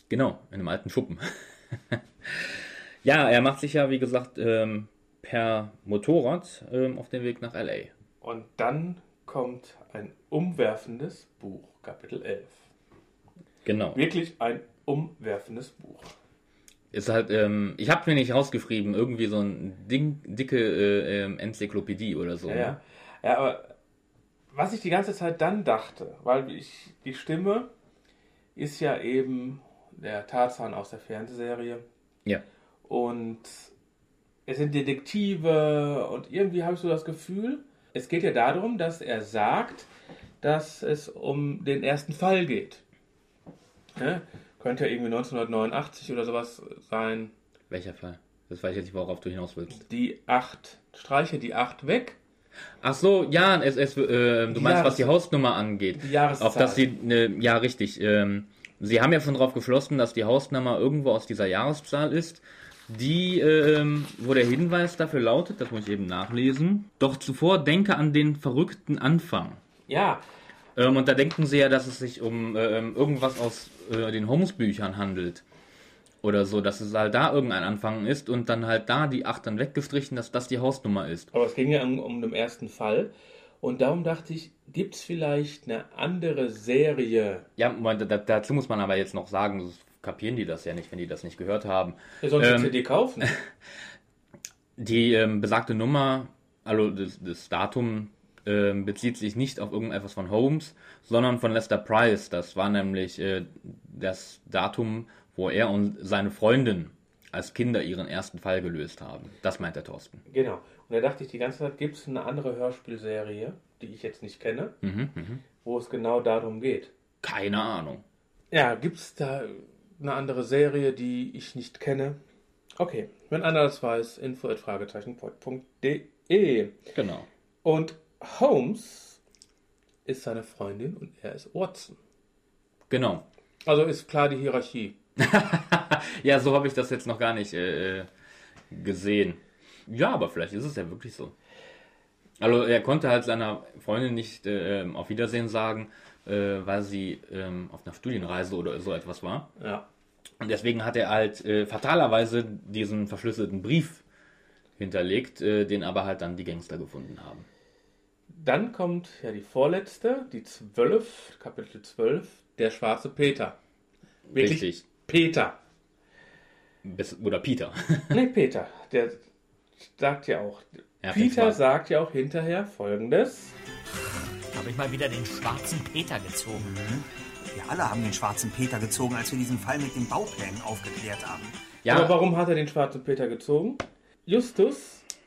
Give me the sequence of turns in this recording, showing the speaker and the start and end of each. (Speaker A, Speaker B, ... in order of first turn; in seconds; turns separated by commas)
Speaker A: 0.1-7.9, Speaker B: 8.2-12.7, Speaker A: 13.7-14.0, Speaker B: 13.9-16.1, Speaker A: 16.9-22.8, Speaker B: 22.5-23.7, Speaker B: 24.5-27.7, Speaker B: 28.6-31.9, Speaker B: 32.9-33.7, Speaker B: 34.5-39.9, Speaker B: 40.4-42.8, Speaker B: 44.0-47.3, Speaker A: 47.7-49.8, Speaker B: 49.7-52.2, Speaker A: 52.8-69.6, Speaker B: 54.5-55.1, Speaker B: 56.0-56.9, Speaker B: 69.9-70.2, Speaker A: 70.8-75.4, Speaker A: 76.2-81.3, Speaker B: 81.3-87.5, Speaker A: 87.6-93.5, Speaker B: 92.2-93.3, Speaker A: 94.8-110.2, Speaker B: 110.3-114.8, Speaker A: 114.8-115.4, Speaker B: 115.6-116.9, Speaker A: 117.2-118.0, Speaker B: 118.5-122.2, Speaker B: 122.8-126.8, Speaker A: 127.0-127.3, Speaker B: 127.6-129.2, Speaker B: 130.1-132.0, Speaker A: 132.9-133.2, Speaker B: 133.7-135.0, Speaker A: 135.2-138.1, Speaker A: 138.7-141.3, Speaker A: 142.4-149.5, Speaker B: 149.6-149.8, Speaker A: 150.4-154.0, Speaker A: 154.8-157.5, Speaker B: 158.3-163.6, Speaker A: 164.3-164.8, Speaker B: 164.3-165.6, Speaker A: 166.8-168.2, Speaker B: 168.1-169.2, Speaker B: 169.8-173.6, Speaker A: 171.0-171.6, Speaker C: 174.5-176.7, Speaker D: 176.5-181.6, Speaker A: 181.8-182.2, Speaker B: 181.9-185.0